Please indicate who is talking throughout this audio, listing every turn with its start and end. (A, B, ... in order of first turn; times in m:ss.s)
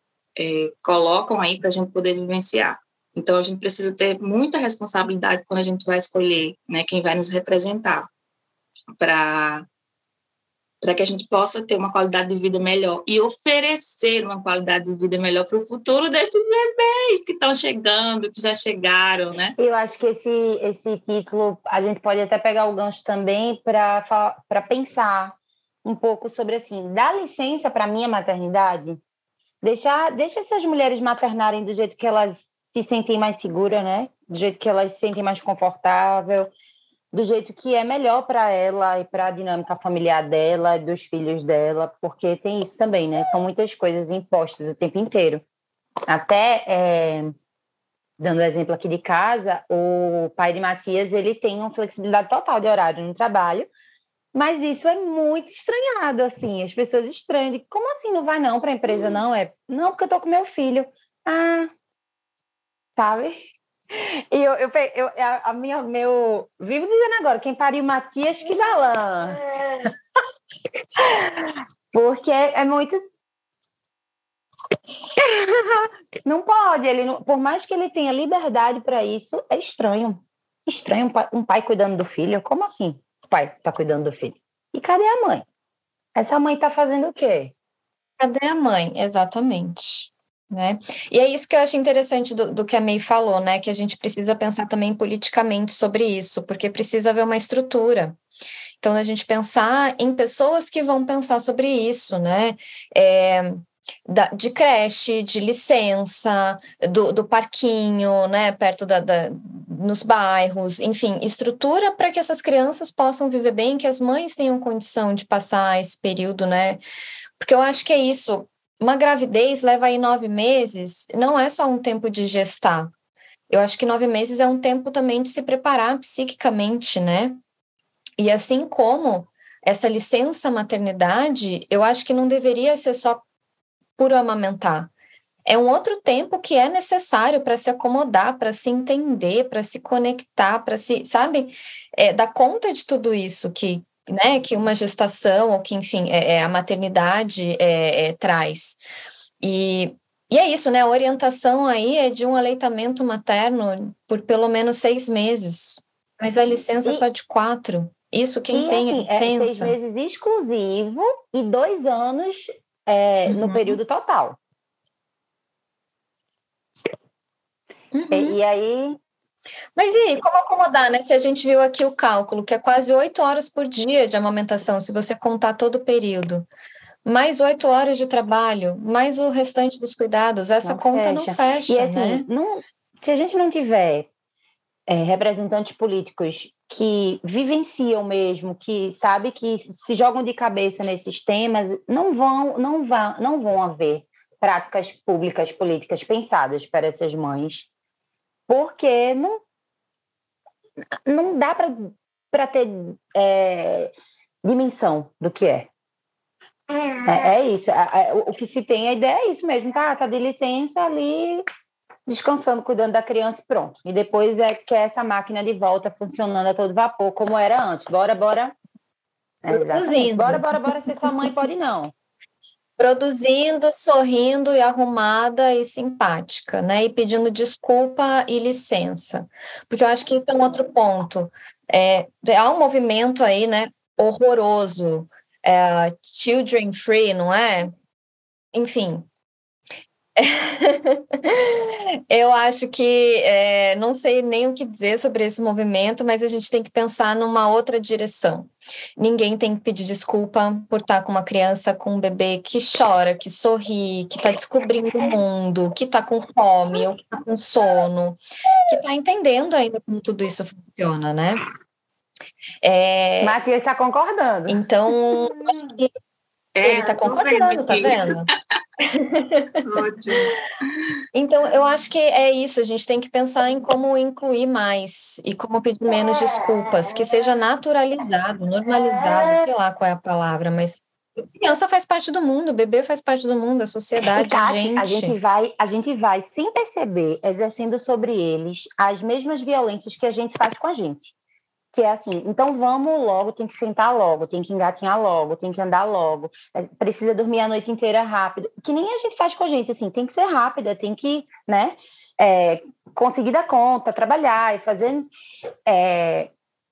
0:00.4-0:08.1 A
0:09.0-0:09.7 A
0:10.8-0:19.6 A
0:19.6-0:29.0 B
0:29.6-0:36.5 B
0:37.1-0:45.4 B
0:46.1-0:47.3 B
0:48.2-0:53.7 B
0:54.3-1:01.7 B
1:03.0-1:03.4 B
1:03.9-1:09.9 B
1:11.0-1:13.0 B
1:15.2-1:25.4 B
1:26.2-1:27.5 B
1:28.2-1:38.2 C
1:38.8-1:56.8 C
1:57.4-2:02.9 C
2:03.5-2:07.4 C
2:08.2-2:13.2 C
2:14.0-2:14.9 C
2:15.5-2:28.8 C
2:29.4-2:39.8 C
2:38.5-2:44.4 B
2:43.3-2:43.8 C
2:47.9-2:48.4 C
2:48.1-2:49.0 B
2:49.8-2:56.5 C
2:57.0-3:02.3 C
3:00.6-3:04.1 B
3:04.9-3:17.7 B
3:18.5-3:19.4 B
3:21.1-3:23.9 B
3:24.4-3:25.7 B
3:27.0-3:31.4 B
3:32.1-3:38.6 B
3:39.4-3:41.9 B
3:39.5-3:41.3 C
3:42.8-3:57.7 C
3:58.5-3:59.1 C
4:00.2-4:21.4 C
4:22.6-4:23.4 C
4:23.2-4:24.6 B
4:24.5-4:25.9 C
4:26.6-4:28.1 A
4:26.6-4:28.3 C
4:28.9-4:29.6 C
4:29.6-4:30.3 A
4:31.1-4:40.8 C
4:41.4-4:45.2 C
4:44.1-4:51.1 B
4:51.7-5:05.1 B
5:05.7-5:06.3 B